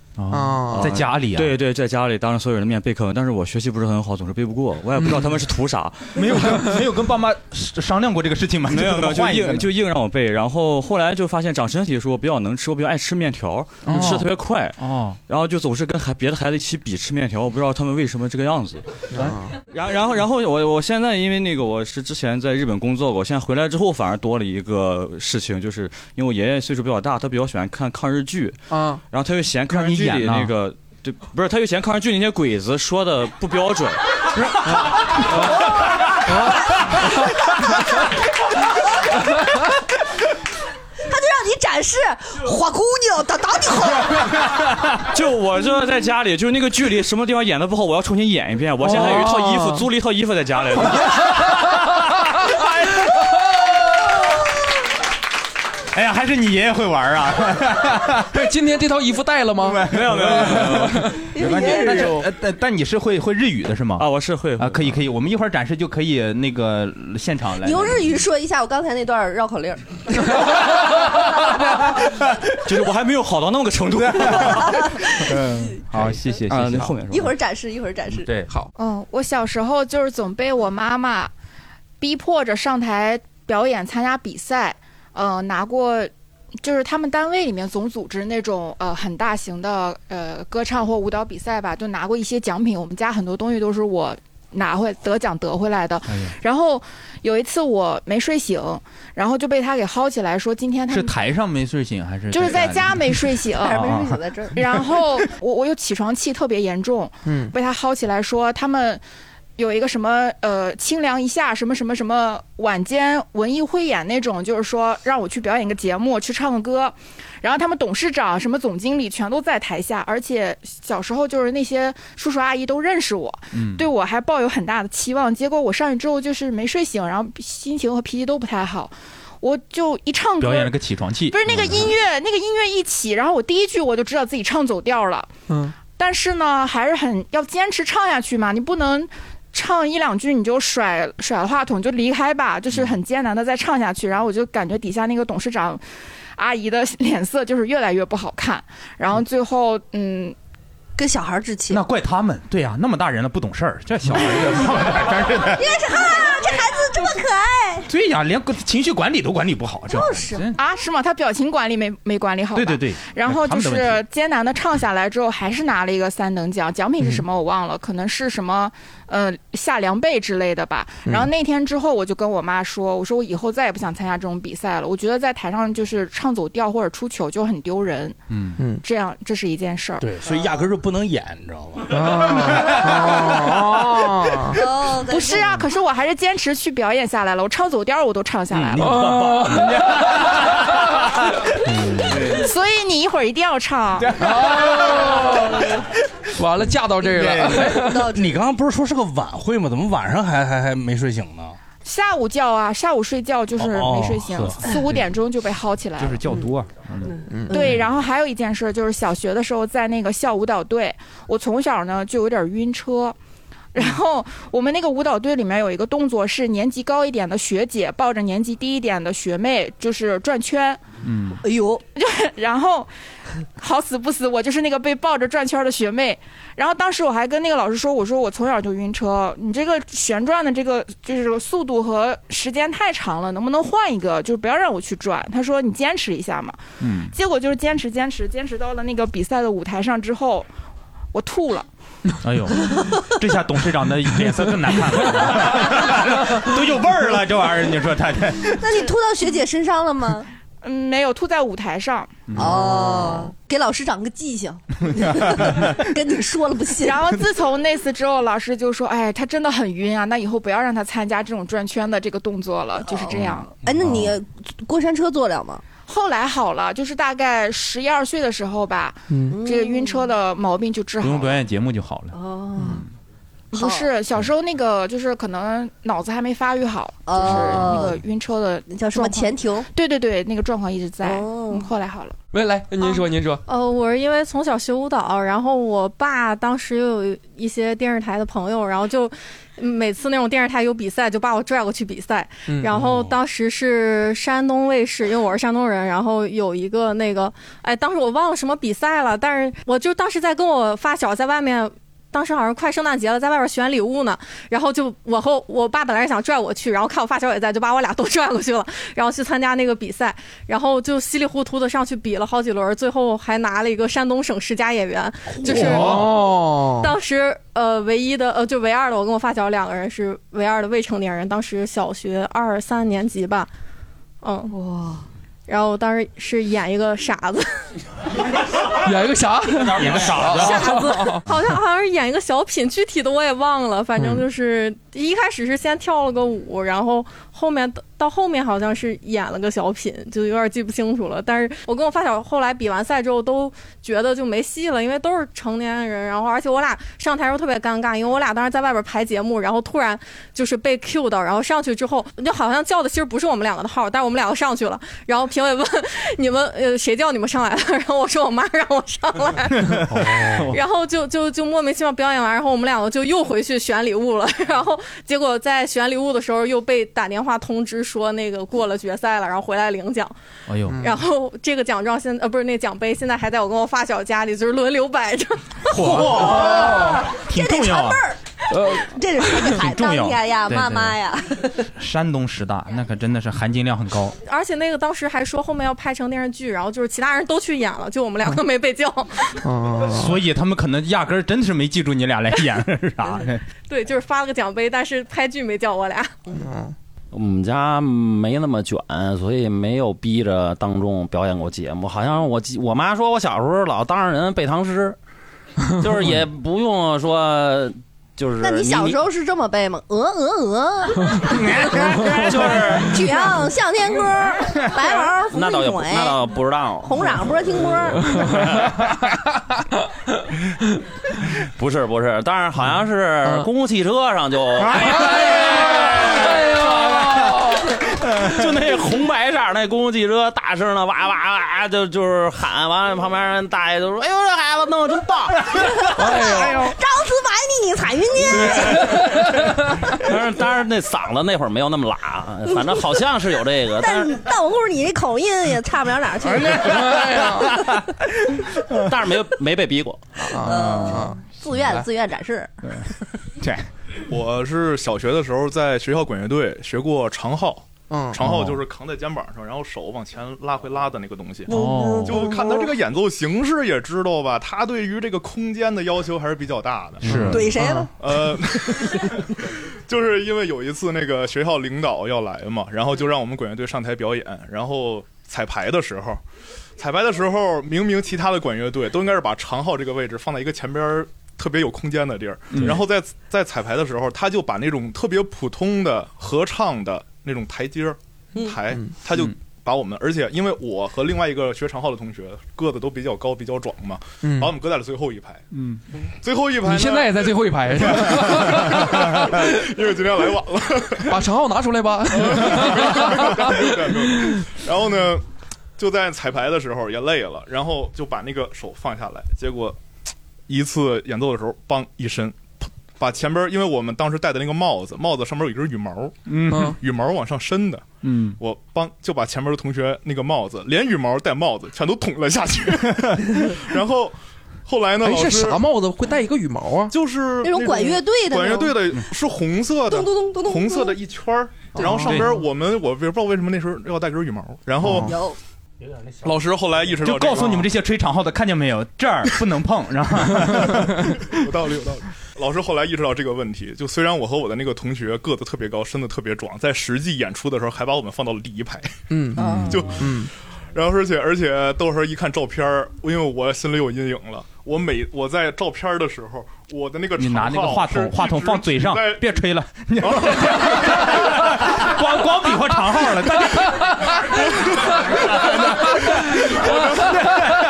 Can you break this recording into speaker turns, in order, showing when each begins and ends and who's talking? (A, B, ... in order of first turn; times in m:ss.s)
0:00.2-0:01.6 A
0:00.3-0:00.9 B
0:00.7-0:06.2 C
0:05.0-0:05.3 B
0:06.1-0:09.7 A
0:08.7-0:18.8 C
0:13.8-0:14.2 B
0:13.9-0:15.2 A
0:19.1-0:19.5 B
0:19.7-0:28.6 C
0:28.7-0:29.0 B
0:29.1-0:34.0 C
0:29.7-0:30.5 A
0:41.1-0:44.3 D
0:45.1-0:51.3 C
0:48.8-0:49.8 B
0:55.9-0:58.3 A
0:58.3-1:01.2 B
0:59.6-1:08.1 A
0:59.9-1:01.1 C
1:01.3-1:02.2 D
1:04.0-1:05.0 C
1:07.6-1:10.0 D
1:11.3-1:12.3 A
1:12.6-1:14.6 C
1:13.9-1:17.0 A
1:14.4-1:15.1 D
1:16.0-1:17.3 C
1:17.1-1:18.3 D
1:18.8-1:21.3 E
1:22.0-1:26.1 E
1:26.6-1:41.1 E
1:36.1-1:36.3 A
1:40.9-1:45.0 A
1:42.3-1:43.9 E
1:43.6-1:44.6 D
1:44.5-1:49.0 E
1:47.2-1:47.5 B
1:49.6-2:10.7 E
2:03.5-2:03.8 A
2:10.4-2:11.9 A
2:11.3-2:15.3 E
2:15.5-2:15.7 B
2:15.8-2:25.8 E
2:26.4-2:30.4 E
2:31.0-2:31.8 D
2:31.7-2:35.7 A
2:35.5-2:37.8 D
2:37.9-2:40.6 A
2:39.9-2:40.4 D
2:40.6-2:58.2 E
2:42.5-2:44.0 A
2:47.0-2:47.2 B
2:51.0-2:51.3 B
2:58.3-2:58.6 A
2:58.6-2:58.8 B
2:58.8-3:00.1 E
3:00.0-3:02.6 F
3:01.9-3:04.6 B
3:04.5-3:05.5 D
3:05.1-3:09.0 E
3:08.8-3:10.6 A
3:08.8-3:10.2 B
3:12.3-3:14.1 E
3:14.0-3:15.4 A
3:14.2-3:15.6 B
3:16.3-3:18.1 B
3:17.7-3:18.3 D
3:18.0-3:21.6 F
3:21.8-3:26.2 E
3:23.6-3:24.6 F
3:26.0-3:27.8 A
3:27.3-3:27.6 B
3:27.5-3:33.2 E
3:33.7-3:40.8 E
3:41.0-3:41.4 A
3:41.4-3:41.8 D
3:42.0-3:42.9 E
3:43.6-3:56.6 E
3:56.8-3:57.1 A
3:57.1-4:00.5 E
4:01.1-4:01.7 E
4:02.2-4:08.6 A
4:08.6-4:10.3 D
4:10.6-4:12.1 E
4:12.3-4:13.1 A
4:12.4-4:17.0 D
4:15.0-4:15.8 A
4:16.8-4:23.5 E
4:22.8-4:25.6 D
4:23.8-4:24.1 A
4:25.9-4:31.4 E
4:29.1-4:29.4 B
4:29.3-4:30.1 D
4:31.0-4:32.1 A
4:32.1-4:32.8 D
4:33.5-4:42.2 E
4:33.5-4:33.9 D
4:37.1-4:38.0 D
4:38.7-4:39.7 D
4:41.0-4:41.7 D
4:42.3-4:43.4 B
4:43.5-5:16.0 G
4:52.5-4:52.9 B
5:15.4-5:16.9 B
5:15.4-5:16.1 A
5:16.8-5:23.5 G
5:24.2-5:24.5 G
5:24.5-5:25.0 D
5:25.5-5:27.7 G
5:28.7-5:31.2 B
5:29.7-5:30.9 A
5:30.4-6:10.1 G
5:59.6-6:00.6 A
6:10.5-6:10.8 A
6:10.8-6:15.4 G
6:15.7-6:18.0 A
6:15.8-6:17.0 B
6:15.9-6:21.6 D
6:18.5-6:18.8 B
6:19.6-6:21.0 A
6:21.8-6:24.1 A
6:24.2-6:29.1 G
6:29.4-6:30.2 B
6:29.9-6:33.4 A
6:33.7-6:36.1 G
6:36.3-6:36.7 B
6:37.1-6:45.0 H
6:45.8-6:49.0 H
6:48.4-6:51.9 D
6:51.4-6:52.7 A
6:52.1-6:52.8 H
6:52.8-6:56.2 D
6:55.3-6:56.9 H
6:56.8-6:58.0 D
6:58.1-6:58.9 B
7:01.6-7:05.1 H
7:04.7-7:07.6 B
7:04.8-7:07.3 A
7:08.4-7:15.3 H
7:16.0-7:18.8 D
7:16.1-7:16.5 B
7:20.0-7:24.1 H
7:23.8-7:26.8 D
7:26.5-7:27.8 A
7:26.6-7:27.5 B
7:28.9-7:30.0 H
7:30.2-7:31.8 B
7:30.4-7:32.5 D
7:30.5-7:31.0 A
7:33.4-7:33.7 A
7:34.1-7:41.5 I
7:37.9-7:38.2 B
7:38.2-7:38.6 A
7:41.5-7:42.3 A
7:41.5-7:42.7 D
7:42.0-7:47.0 I
7:47.0-7:47.5 A
7:47.1-7:47.9 B
7:47.2-7:47.9 D
7:48.0-7:49.2 I
7:49.9-7:56.2 I
7:56.8-8:15.4 I
8:02.5-8:02.8 A
8:14.2-8:14.5 B
8:15.5-8:15.8 A
8:16.2-8:21.1 I
8:16.6-8:19.4 B
8:21.1-8:24.4 B
8:22.1-8:25.2 I
8:25.8-8:29.8 I
8:30.5-8:36.2 I
8:36.3-8:36.8 A
8:36.5-8:36.8 B
8:36.7-8:37.9 I
8:38.0-8:38.4 A
8:38.4-8:45.6 I
8:45.0-8:46.9 B
8:46.9-8:55.1 I
8:47.4-8:48.8 D
8:49.9-8:51.0 D
8:51.7-8:52.3 B
8:52.0-8:52.4 A
8:54.8-8:55.1 B
8:55.0-8:55.4 D
8:56.2-8:57.7 I
8:57.0-9:01.3 A
9:01.2-9:08.9 I
9:09.1-9:10.3 B
9:09.4-9:09.8 D
9:09.7-9:19.3 I
9:17.2-9:24.4 A
9:20.0-9:21.3 I
9:25.2-9:27.4 I